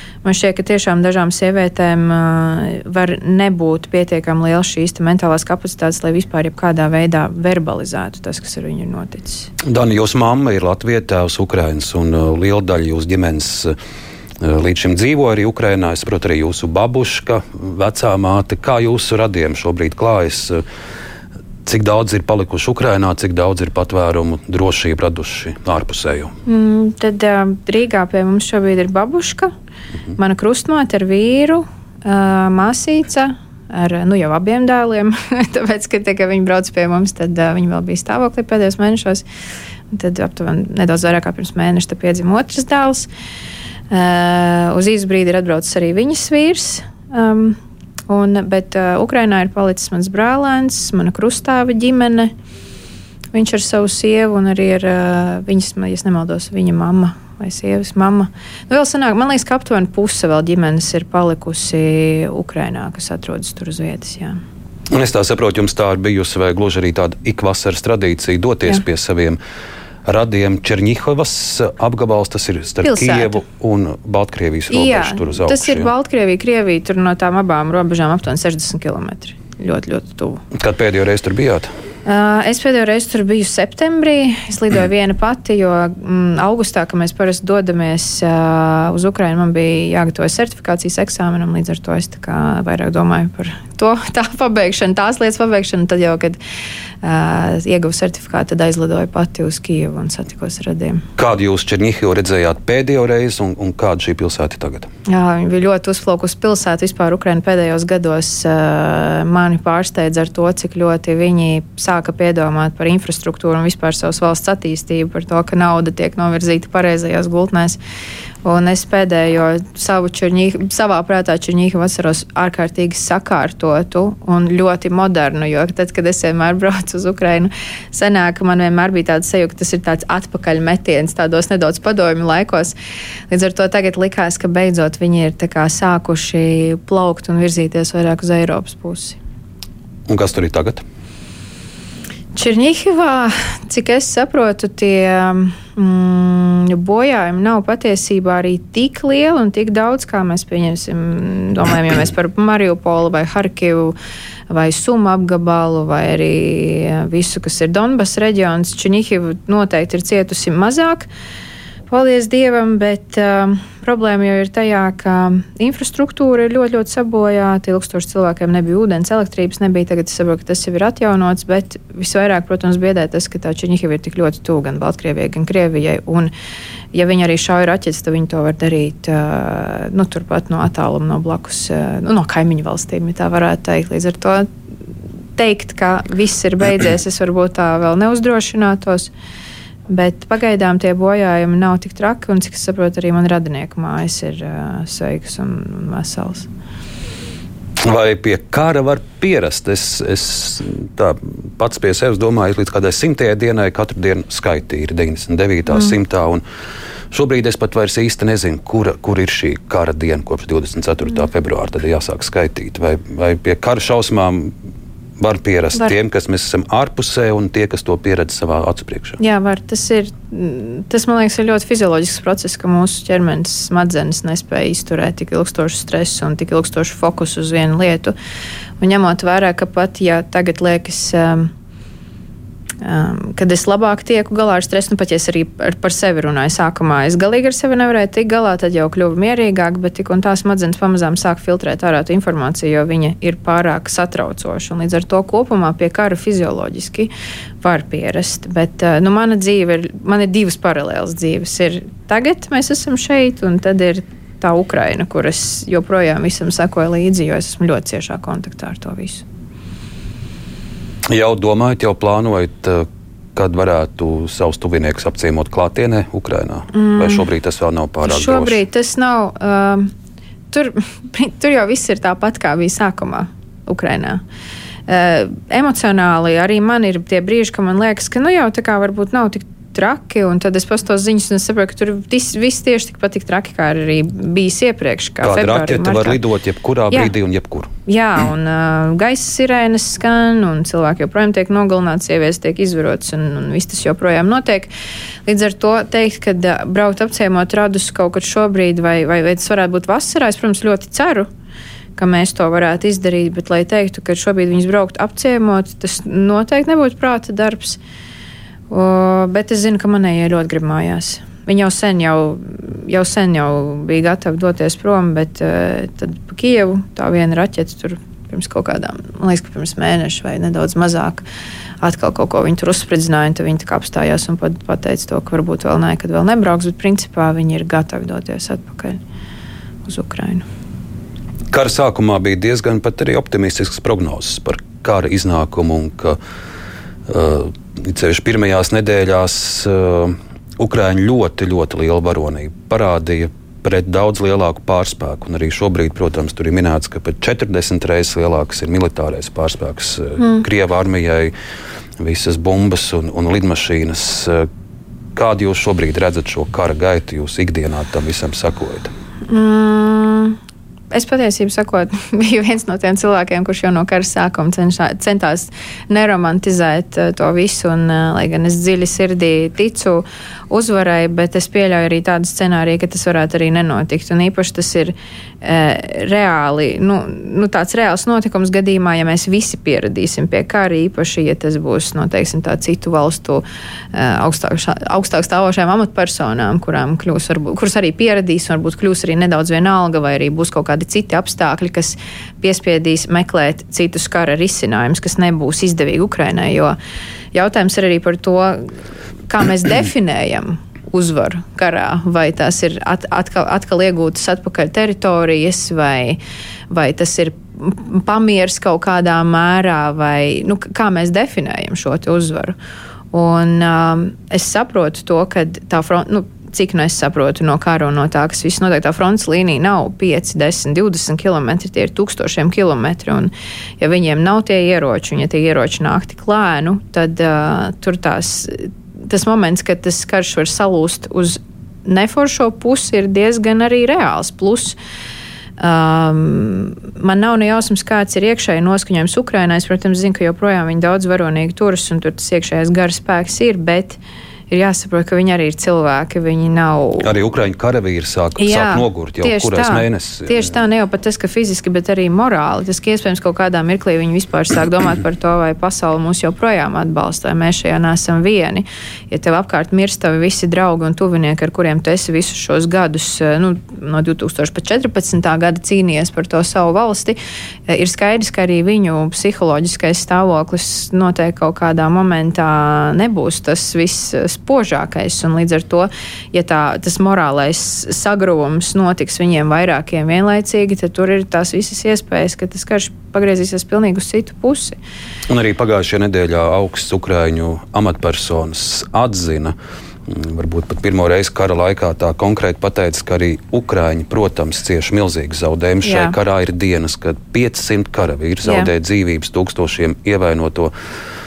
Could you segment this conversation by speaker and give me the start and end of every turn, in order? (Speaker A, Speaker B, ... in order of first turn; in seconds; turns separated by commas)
Speaker A: 0.2-9.5, Speaker B: 9.6-13.8, Speaker B: 14.4-20.6, Speaker B: 21.7-26.4, Speaker A: 26.5-29.5, Speaker A: 30.2-39.2, Speaker A: 39.9-43.1, Speaker A: 43.9-47.6, Speaker A: 48.1-52.3, Speaker A: 53.3-64.4, Speaker B: 64.9-69.4, Speaker B: 70.0-75.9, Speaker A: 72.8-73.4, Speaker A: 74.7-80.4, Speaker B: 80.5-81.7, Speaker A: 82.1-96.4, Speaker A: 97.0-101.0, Speaker B: 101.2-104.9, Speaker A: 105.1-117.8, Speaker A: 118.4-132.7, Speaker A: 133.3-139.2, Speaker B: 140.1-140.8, Speaker A: 142.3-153.9, Speaker A: 154.5-161.1, Speaker A: 161.9-176.3, Speaker A: 176.9-184.5, Speaker A: 185.4-189.1, Speaker A: 189.9-196.5, Speaker B: 197.8-206.4, Speaker B: 207.1-214.5, Speaker B: 215.2-219.2, Speaker A: 219.2-228.1, Speaker A: 228.8-231.5, Speaker A: 232.8-247.1, Speaker A: 247.6-259.2, Speaker B: 261.1-268.6, Speaker A: 266.7-267.3, Speaker A: 268.0-269.9, Speaker A: 270.5-274.2, Speaker A: 274.9-286.2, Speaker B: 285.2-287.7, Speaker A: 287.9-294.7, Speaker A: 295.3-301.3, Speaker A: 302.0-307.8, Speaker A: 308.7-321.2, Speaker A: 321.8-329.0, Speaker A: 329.9-330.4, Speaker B: 331.5-336.2, Speaker B: 337.1-351.3, Speaker A: 350.2-350.4, Speaker B: 352.0-354.5, Speaker B: 355.1-358.9, Speaker A: 359.3-360.4, Speaker A: 360.9-396.8, Speaker A: 397.3-398.7, Speaker A: 399.3-406.2, Speaker A: 406.7-412.6, Speaker A: 413.1-434.8, Speaker A: 435.6-444.0, Speaker A: 444.5-447.1, Speaker B: 447.0-450.5, Speaker A: 448.4-467.2, Speaker A: 467.7-484.8, Speaker B: 485.3-489.6, Speaker B: 490.1-500.7, Speaker A: 495.8-496.1, Speaker A: 498.4-498.7